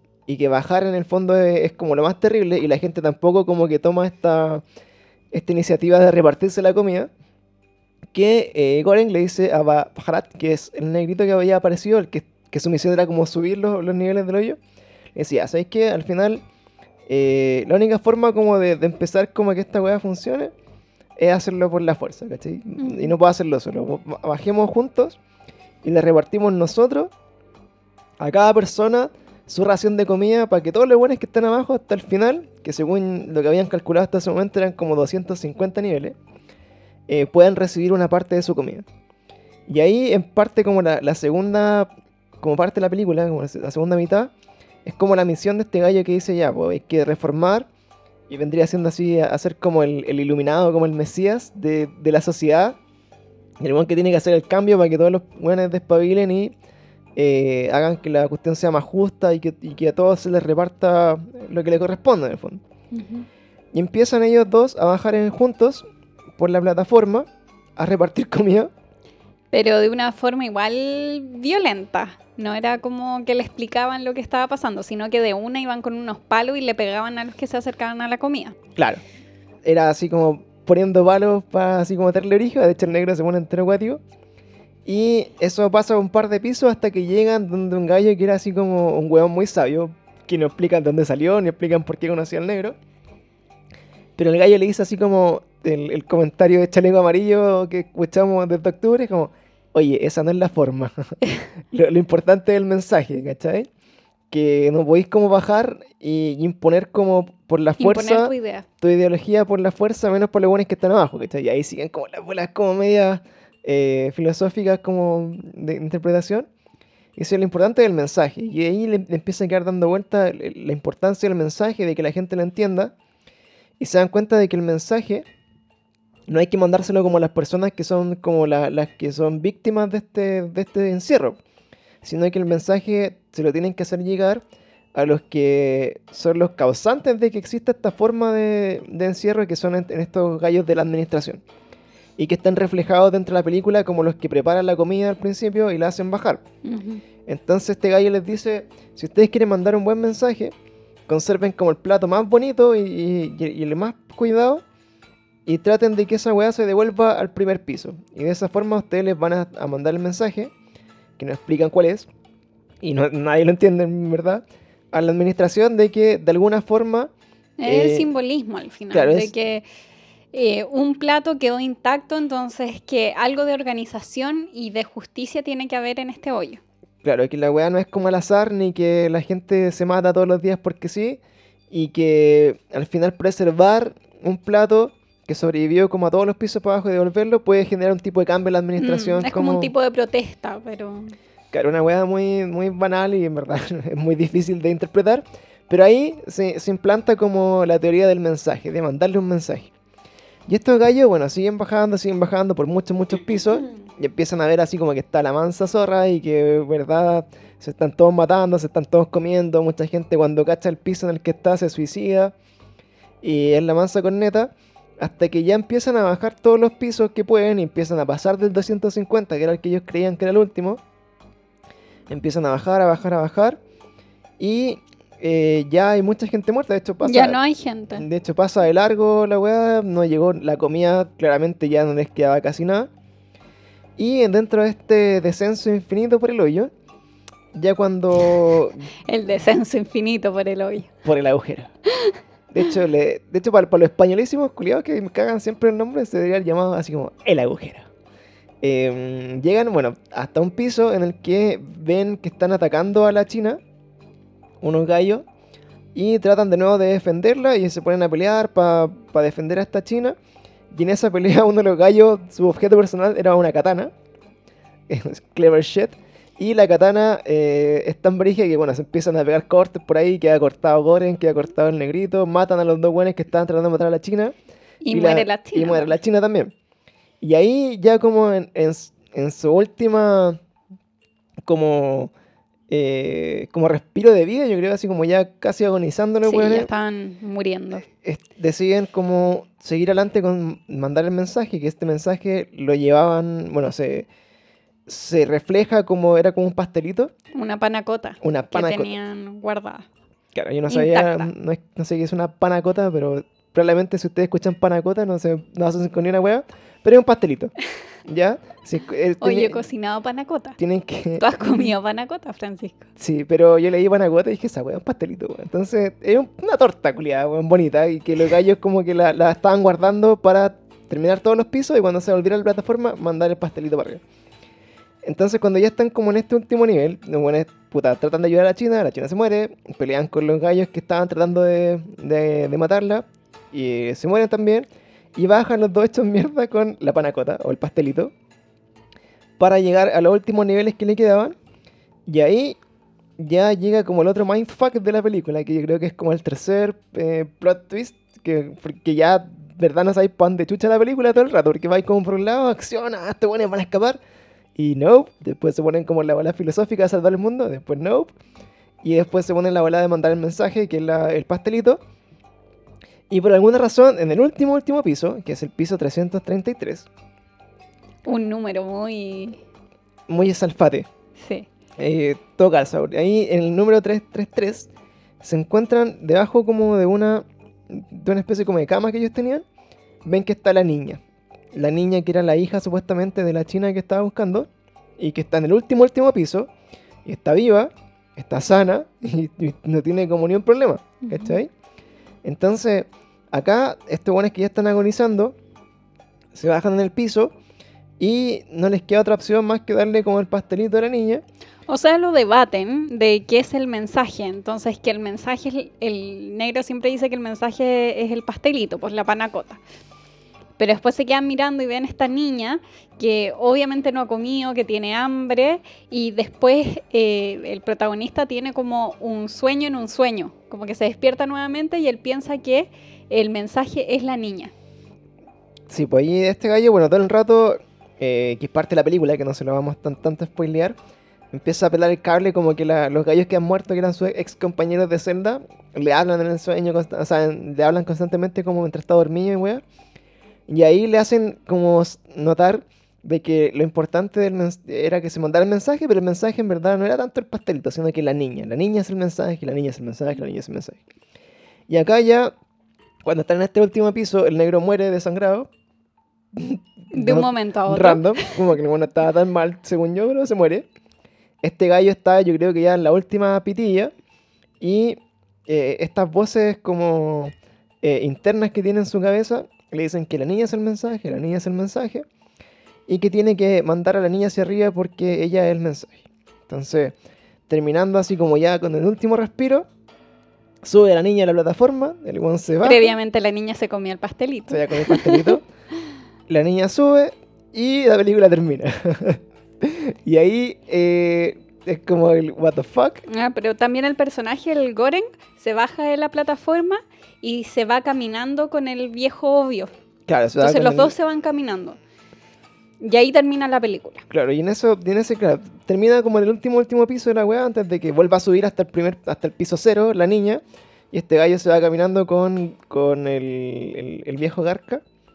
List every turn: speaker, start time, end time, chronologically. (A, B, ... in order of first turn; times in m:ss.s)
0:00.3-0:04.6 A
0:05.3-0:07.1 A
0:08.1-0:14.6 A
0:15.2-0:16.4 A
0:17.1-0:20.5 A
0:21.2-0:25.2 A
0:22.8-0:23.2 B
0:25.8-0:27.1 A
0:28.2-0:36.2 A
0:37.1-0:38.8 A
0:39.7-0:41.9 A
0:42.4-0:44.3 A
0:44.8-0:47.7 A
0:48.3-0:52.8 A
0:53.6-0:56.5 A
0:57.2-1:02.6 A
1:02.9-1:03.3 B
1:03.7-1:05.8 A
1:06.4-1:08.7 A
1:09.5-1:18.6 B
1:18.8-1:19.0 A
1:19.6-1:24.0 A
1:24.9-1:32.8 A
1:34.2-1:43.7 A
1:44.3-1:56.5 A
1:47.8-1:48.7 B
1:57.2-2:02.9 A
2:03.8-2:05.2 A
2:06.3-2:11.4 A
2:12.0-2:14.4 A
2:14.9-2:21.4 A
2:22.2-2:26.4 A
2:26.6-2:27.0 B
2:27.3-2:30.5 A
2:31.1-2:34.6 A
2:35.5-2:40.5 A
2:41.2-2:42.1 A
2:42.8-2:47.1 A
2:47.6-2:49.6 B
2:47.6-2:48.1 A
2:48.9-2:49.3 A
2:50.3-2:56.6 B
2:57.0-3:09.7 A
3:08.8-3:11.2 B
3:11.5-3:19.7 A
3:20.5-3:32.3 A
3:33.2-3:40.8 A
3:42.1-3:43.6 A
3:44.4-3:47.4 A
3:47.0-3:48.1 B
3:47.9-3:52.9 A
3:54.0-3:56.7 A
3:57.5-3:58.9 A
3:59.1-4:00.9 B
4:01.0-4:01.7 A
4:01.9-4:02.2 B
4:02.5-4:07.9 A
4:08.6-4:13.6 A
4:14.6-4:15.2 A
4:16.0-4:20.2 A
4:20.7-4:23.9 A
4:24.9-4:34.4 A
4:34.8-4:35.9 B
4:34.9-4:36.5 A
4:37.2-4:40.4 A
4:41.5-4:42.1 A
4:42.7-4:46.7 A
4:46.2-4:47.8 B
4:47.9-4:54.1 A
4:54.9-4:57.1 A
4:57.3-4:59.9 B
4:58.2-4:58.9 A
5:00.4-5:07.5 A
5:00.7-5:01.3 B
5:08.1-5:09.6 A
5:09.2-5:10.6 B
5:10.6-5:11.7 A
5:11.2-5:12.9 B
5:13.0-5:24.0 A
5:25.0-5:38.1 A
5:39.4-5:41.4 A
5:42.1-5:42.6 A
5:43.2-5:54.0 A
5:54.6-5:58.1 A
5:58.8-6:01.8 A
6:03.1-6:06.9 A
6:08.0-6:09.4 B
6:10.1-6:10.9 A
6:11.2-6:11.5 B
6:11.8-6:14.7 A
6:15.2-6:19.4 A
6:20.0-6:21.0 A
6:21.5-6:26.5 A
6:27.0-6:31.5 A
6:31.0-6:31.4 B
6:32.2-6:35.4 A
6:36.3-6:37.3 A
6:38.0-6:41.2 A
6:41.7-6:49.6 B
6:50.6-7:04.5 B
7:05.7-7:10.8 A
7:11.3-7:19.6 A
7:20.5-7:30.8 A
7:31.7-7:32.3 A
7:33.0-7:35.5 A
7:36.3-7:40.7 A
7:36.9-7:38.4 B
7:41.4-7:43.9 A
7:44.6-7:52.0 A
7:52.9-7:56.9 A
7:57.5-7:59.7 A
8:00.6-8:02.9 A
8:02.6-8:05.4 B
8:04.5-8:05.4 A
8:06.3-8:13.0 A
8:13.1-8:19.7 B
8:20.1-8:20.9 A
8:20.4-8:21.8 B
8:22.8-8:24.0 B
8:24.1-8:34.8 A